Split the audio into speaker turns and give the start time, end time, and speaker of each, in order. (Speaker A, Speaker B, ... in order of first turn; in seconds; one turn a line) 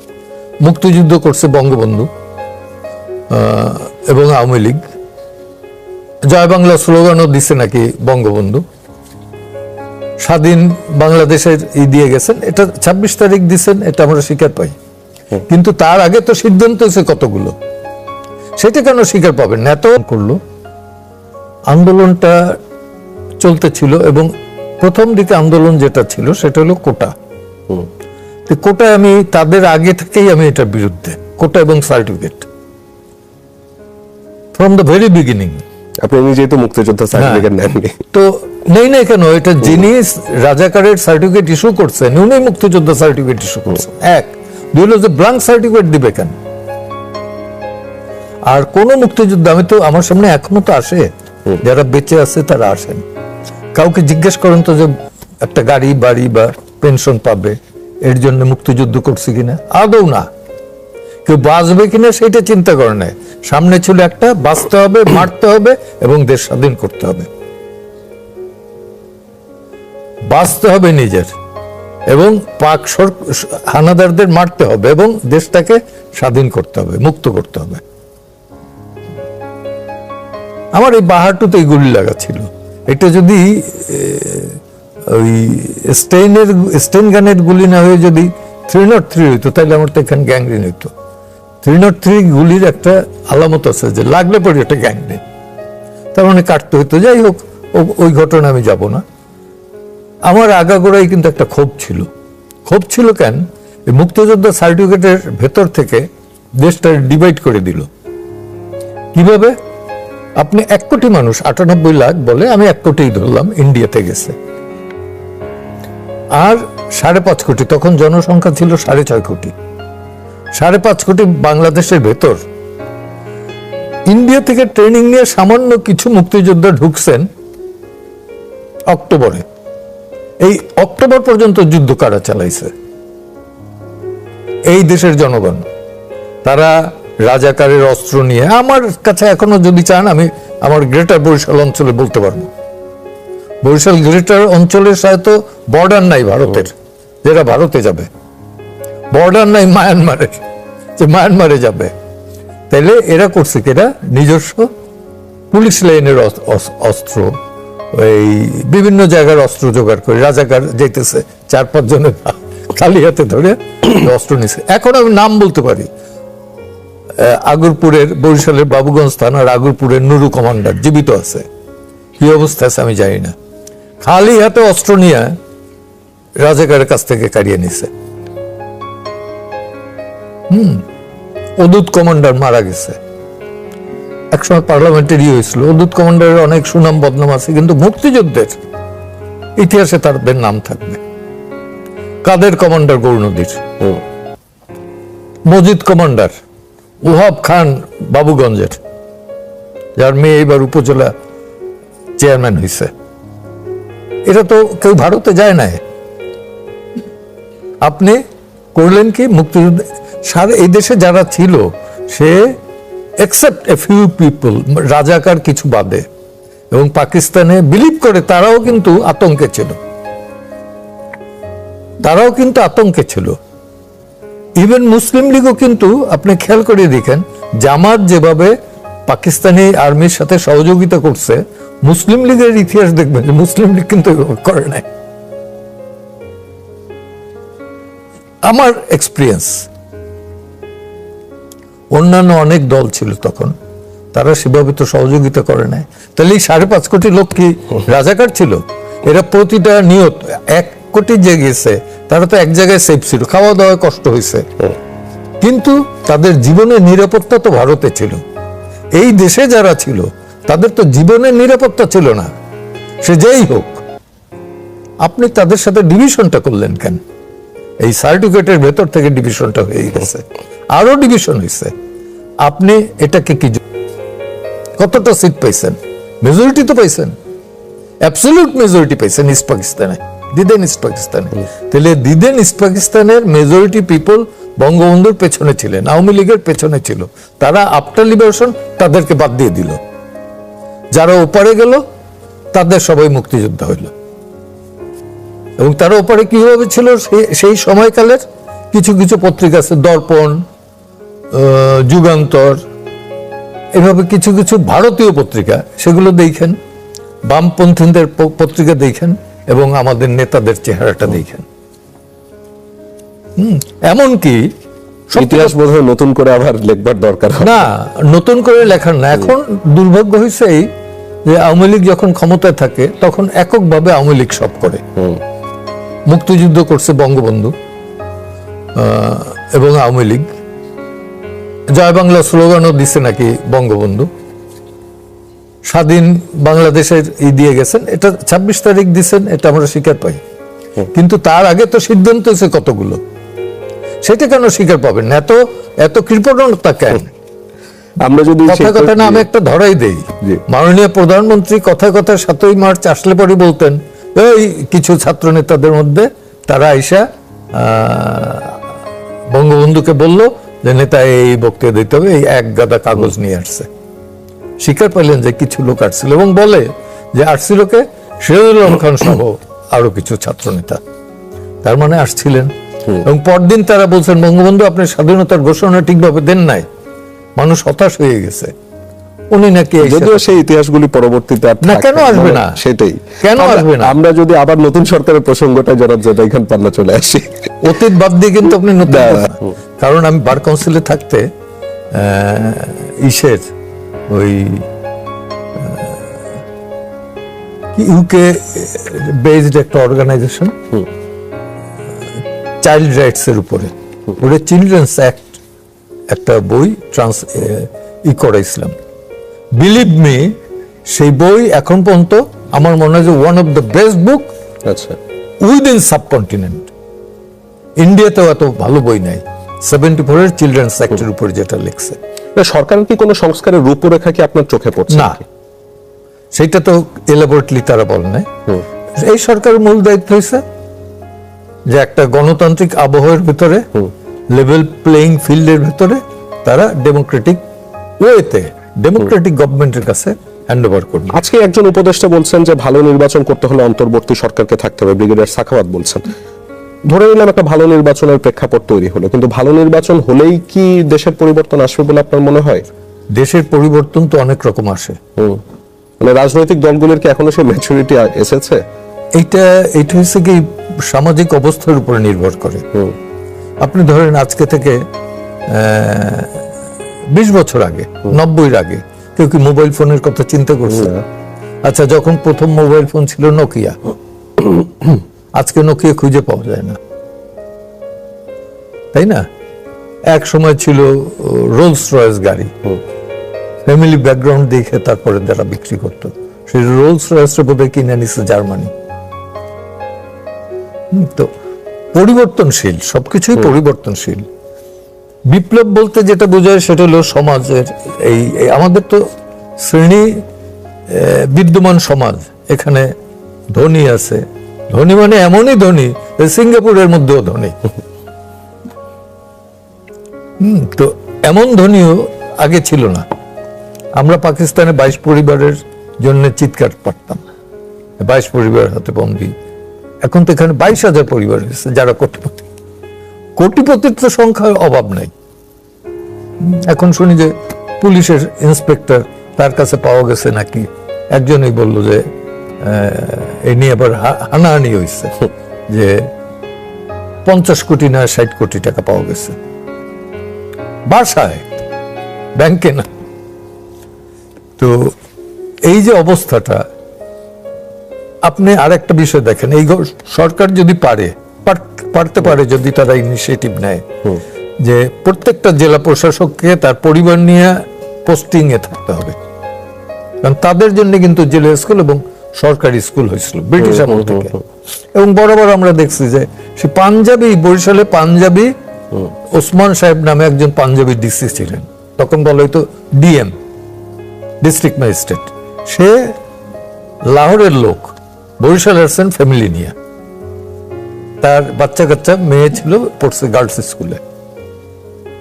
Speaker A: 0.6-2.1
Speaker A: 3.3-4.8
Speaker A: 6.3-8.6
Speaker A: 10.2-14.8
Speaker A: 15.5-17.6
Speaker A: 18.6-20.4
Speaker A: 21.7-22.6
Speaker A: 23.4-27.1
Speaker A: 28.5-32.5
Speaker A: 34.5-35.6
Speaker B: 36.0-38.0
Speaker A: 37.2-37.5
Speaker A: 38.1-46.4
Speaker A: 48.5-53.0
Speaker A: 53.7-60.3
Speaker A: 61.2-67.3
Speaker A: 70.3-71.3
Speaker A: 72.1-77.8
Speaker A: 80.7-90.9
Speaker A: 91.6-95.2
Speaker A: 96.1-99.0
Speaker A: 100.3-102.1
Speaker A: 102.7-106.1
Speaker A: 106.6-107.9
Speaker A: 109.1-109.6
Speaker A: 110.4-114.3
Speaker A: 116.4-119.5
Speaker A: 120.6-122.4
Speaker A: 124.1-127.3
Speaker A: 128.9-129.4
Speaker A: 130.4-132.7
Speaker A: 134.7-135.7
Speaker A: 136.4-142.5
Speaker A: 143.6-148.1
Speaker A: 149.1-150.4
Speaker A: 151.0-151.9
Speaker A: 152.7-154.7
Speaker A: 155.5-157.4
Speaker A: 157.9-165.9
Speaker A: 167.2-171.5
Speaker A: 172.2-173.3
Speaker A: 174.0-175.3
Speaker A: 176.4-177.9
Speaker A: 180.5-180.8
Speaker A: 181.6-183.0
Speaker A: 184.3-188.6
Speaker A: 189.6-191.0
Speaker A: 192.2-193.6
Speaker A: 195.5-196.3
Speaker A: 197.0-198.8
Speaker A: 200.0-201.1
Speaker A: 202.2-202.9
Speaker A: 204.3-205.8
Speaker A: 207.8-208.2
Speaker A: 208.8-212.6
Speaker A: 213.2-216.1
Speaker A: 216.7-219.8
Speaker A: 222.0-223.4
Speaker A: 224.6-228.6
Speaker A: 229.1-234.9
Speaker A: 238.4-239.7
Speaker A: 241.9-243.6
Speaker A: 244.1-254.6
Speaker A: 255.4-258.2
Speaker A: 259.0-262.3
Speaker A: 263.0-263.8
Speaker A: 265.0-267.0
Speaker A: 267.8-271.7
Speaker A: 272.4-273.6
Speaker A: 274.8-277.2
Speaker A: 278.0-289.8
Speaker A: 290.9-291.8
Speaker A: 292.5-293.9
Speaker A: 295.6-300.4
Speaker A: 301.3-302.6
Speaker A: 303.8-306.6
Speaker A: 307.3-311.5
Speaker A: 313.4-314.5
Speaker A: 315.1-315.6
Speaker B: 315.2-317.7
Speaker A: 317.4-320.7
Speaker A: 321.3-324.8
Speaker A: 326.1-327.5
Speaker A: 328.8-330.3
Speaker A: 331.8-334.1
Speaker A: 335.7-340.2
Speaker A: 340.9-343.0
Speaker A: 344.0-347.1
Speaker B: 348.0-349.3
Speaker A: 348.5-358.6
Speaker A: 359.3-363.7
Speaker A: 364.6-370.8
Speaker A: 371.6-376.7
Speaker A: 377.4-378.5
Speaker A: 379.3-380.3
Speaker B: 379.8-387.5
Speaker A: 381.6-382.6
Speaker A: 383.2-383.9
Speaker A: 387.6-391.3
Speaker B: 388.9-389.4
Speaker A: 391.9-393.5
Speaker A: 394.1-394.7
Speaker A: 395.6-396.1
Speaker A: 397.8-400.7
Speaker A: 402.6-405.4
Speaker A: 406.1-408.8
Speaker A: 409.6-410.4
Speaker A: 410.9-414.3
Speaker B: 414.7-415.0
Speaker A: 415.4-416.7
Speaker A: 417.8-422.0
Speaker B: 422.4-425.2
Speaker A: 424.9-425.2
Speaker A: 426.4-428.3
Speaker A: 429.0-430.4
Speaker A: 431.7-433.7
Speaker A: 434.3-437.4
Speaker A: 438.0-441.2
Speaker B: 441.1-446.1
Speaker B: 446.9-452.6
Speaker A: 453.1-455.0
Speaker B: 455.2-455.4
Speaker B: 456.0-458.6
Speaker A: 459.2-462.6
Speaker A: 463.6-464.8
Speaker A: 465.5-466.4
Speaker A: 467.1-471.0
Speaker A: 471.6-473.8
Speaker A: 475.4-476.8
Speaker A: 478.9-479.2
Speaker A: 480.1-482.6
Speaker A: 483.6-488.7
Speaker A: 490.9-491.3
Speaker A: 491.9-494.3
Speaker A: 495.3-499.1
Speaker A: 499.6-500.2
Speaker A: 500.9-502.9
Speaker A: 503.5-507.6
Speaker A: 510.4-513.1
Speaker A: 514.0-517.3
Speaker A: 518.0-519.3
Speaker A: 520.0-522.5
Speaker A: 523.4-525.1
Speaker A: 526.4-532.1
Speaker A: 532.6-536.1
Speaker A: 537.2-539.4
Speaker A: 540.9-541.5
Speaker A: 542.4-542.9
Speaker A: 544.6-545.0
Speaker A: 545.6-546.7
Speaker A: 548.2-553.9
Speaker A: 554.6-559.2
Speaker A: 560.2-564.4
Speaker B: 563.6-564.4
Speaker A: 564.9-568.5
Speaker A: 569.3-573.3
Speaker A: 574.4-576.1
Speaker A: 577.1-579.8
Speaker A: 581.2-584.0